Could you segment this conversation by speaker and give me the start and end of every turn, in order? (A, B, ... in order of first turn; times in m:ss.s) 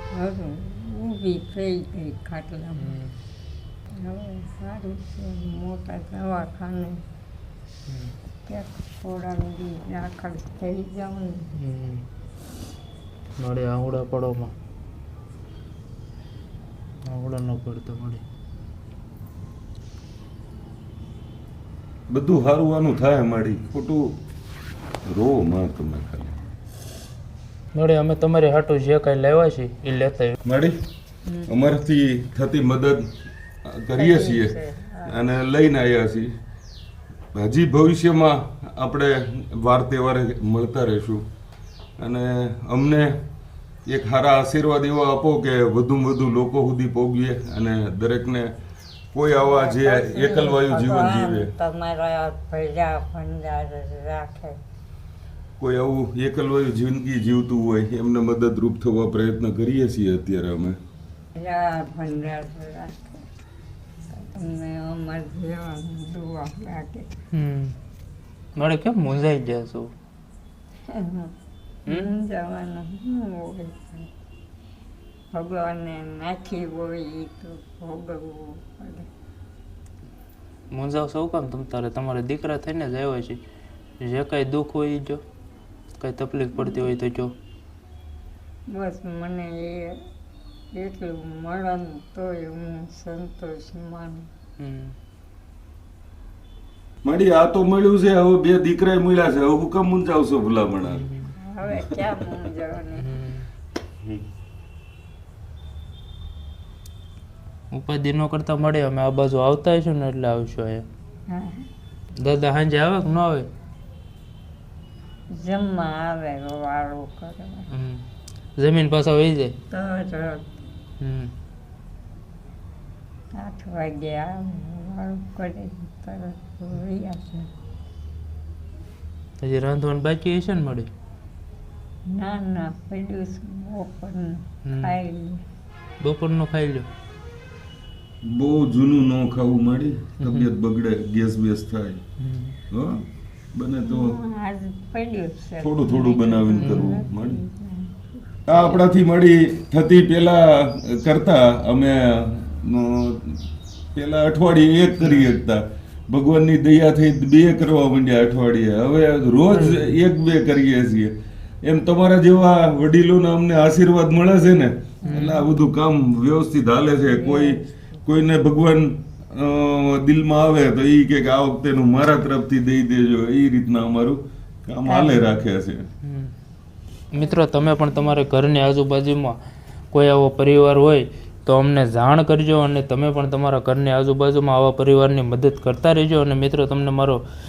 0:00.1-0:03.0 A
0:02.8-0:03.1 B
0:03.9-0:07.0 A
0:07.9-0:08.1 B
0:08.4-0:11.5 A
0:11.6-0:12.0 B
0:13.4-0:14.5 B
0:17.0-0:18.2 B
0:22.1-0:24.2 C
0:25.0-0:26.4 C
0:27.7-0:30.4 B
0:30.4-0:30.8 C
0:31.2-0:31.5 A
0:31.4-0:33.1 C
0:33.6-0:36.3 C
0:34.0-0:35.1 A
0:37.3-0:41.2 C
0:42.0-0:43.2 C
0:43.8-0:48.5 C
0:49.1-0:51.5 C
0:49.4-0:54.6 A
0:55.6-1:00.8 C
1:01.3-1:03.2 A
1:04.1-1:07.2 A
1:07.3-1:07.8 B
1:08.5-1:09.9 B
1:10.9-1:11.3 A
1:11.8-1:14.1 A
1:11.9-1:12.1 B
1:15.3-1:19.1 A
1:20.7-1:23.4 B
1:24.0-1:25.2 B
1:26.0-1:27.3 B
1:26.5-1:26.9 A
1:28.7-1:30.0 A
1:30.7-1:34.3 A
1:34.6-1:35.0 B
1:37.0-1:41.0 C
1:40.9-1:41.3 B
1:41.3-1:43.1 A
1:43.0-1:43.5 B
1:47.7-1:50.8 B
1:51.3-1:51.7 A
1:52.1-1:53.5 B
1:55.3-1:57.7 A
1:57.7-1:59.6 B
1:59.7-2:00.6 A
2:01.0-2:01.3 B
2:03.3-2:07.5 A
2:09.4-2:10.9 B
2:12.1-2:15.4 A
2:14.6-2:15.0 B
2:16.0-2:16.9 B
2:18.2-2:22.0 C
2:20.2-2:20.5 B
2:22.2-2:22.6 B
2:22.7-2:24.2 C
2:23.8-2:28.8 A
2:25.6-2:27.4 C
2:26.5-2:26.9 B
2:28.5-2:55.9 C
2:35.0-2:35.3 B
2:39.5-2:40.0 B
2:45.0-2:45.4 B
2:47.0-2:47.8 A
2:54.8-2:55.4 A
2:56.0-2:56.3 B
2:57.1-2:59.4 B
2:57.2-2:58.1 A
2:59.9-3:07.3 B